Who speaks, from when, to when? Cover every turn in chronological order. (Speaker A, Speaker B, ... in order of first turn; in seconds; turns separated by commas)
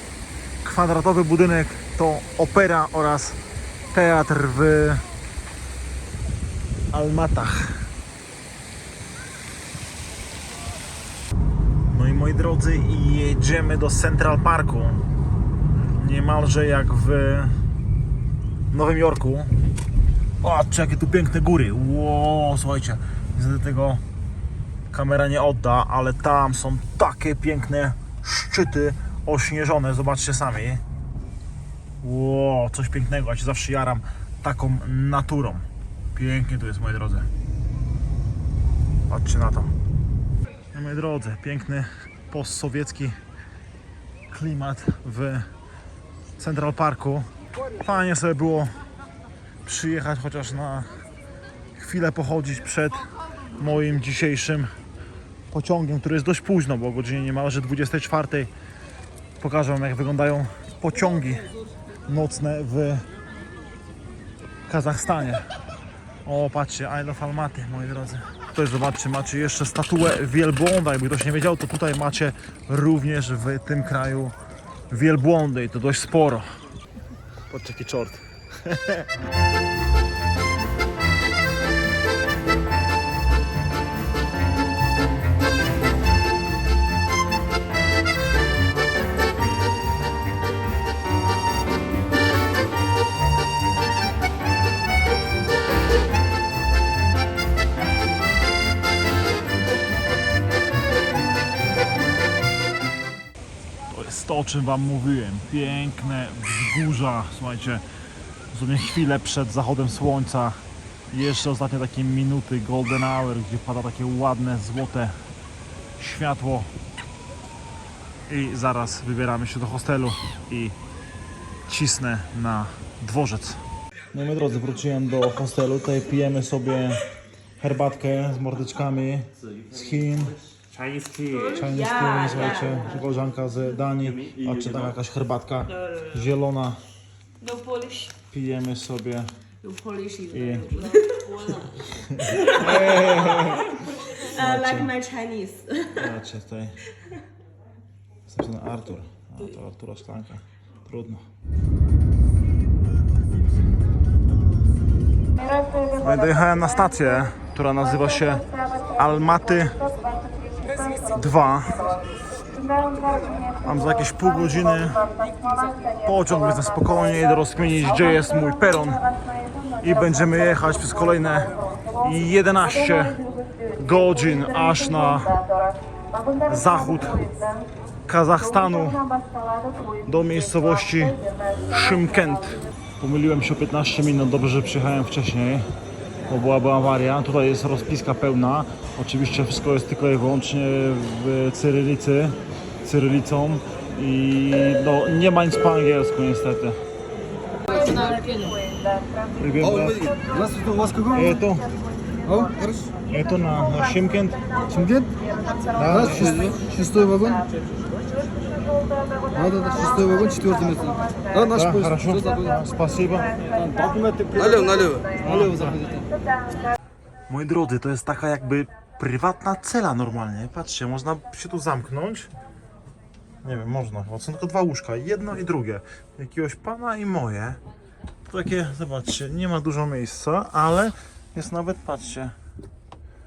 Speaker A: 0.6-3.4, Speaker A: 3.9-5.0, Speaker A: 6.9-7.9, Speaker A: 11.9-15.0, Speaker A: 16.0-17.6, Speaker A: 18.7-19.5, Speaker A: 20.4-24.0, Speaker A: 24.9-30.8, Speaker A: 32.0-37.3, Speaker A: 39.1-39.7, Speaker A: 40.7-43.2, Speaker A: 44.3-45.5, Speaker A: 46.4-47.3, Speaker A: 47.8-48.7, Speaker A: 49.6-50.9, Speaker A: 51.8-54.7, Speaker A: 55.5-58.5, Speaker A: 59.4-61.5, Speaker A: 62.1-63.1, Speaker A: 64.7-65.5, Speaker A: 66.2-74.3, Speaker A: 74.9-76.5, Speaker A: 77.5-79.1, Speaker A: 103.9-107.8, Speaker A: 108.5-115.2, Speaker A: 116.0-116.7, Speaker A: 118.3-120.8, Speaker A: 121.7-123.6, Speaker A: 124.1-127.0, Speaker A: 127.6-130.4, Speaker B: 130.8-131.5, Speaker C: 131.3-133.2, Speaker A: 131.3-136.8, Speaker C: 137.4-138.1, Speaker A: 138.3-139.3, Speaker C: 139.6-145.9, Speaker A: 140.3-140.7, Speaker A: 142.1-145.0, Speaker A: 145.9-146.8, Speaker A: 148.3-151.3, Speaker A: 156.0-159.8, Speaker A: 161.1-162.0, Speaker A: 163.6-165.1, Speaker A: 166.0-169.1, Speaker A: 169.8-173.2, Speaker A: 173.8-175.4, Speaker A: 176.5-177.3, Speaker A: 178.1-179.0, Speaker A: 180.1-185.7, Speaker A: 186.3-196.8, Speaker C: 197.7-198.6, Speaker A: 199.4-200.1, Speaker B: 199.7-201.2, Speaker A: 201.1-201.7, Speaker B: 202.2-202.9, Speaker A: 203.1-204.4, Speaker B: 204.7-205.1, Speaker A: 205.8-206.5, Speaker B: 205.9-207.4, Speaker B: 209.3-212.4, Speaker A: 211.5-215.8, Speaker B: 213.8-216.1, Speaker A: 217.3-222.3, Speaker A: 223.4-227.6, Speaker A: 228.3-232.3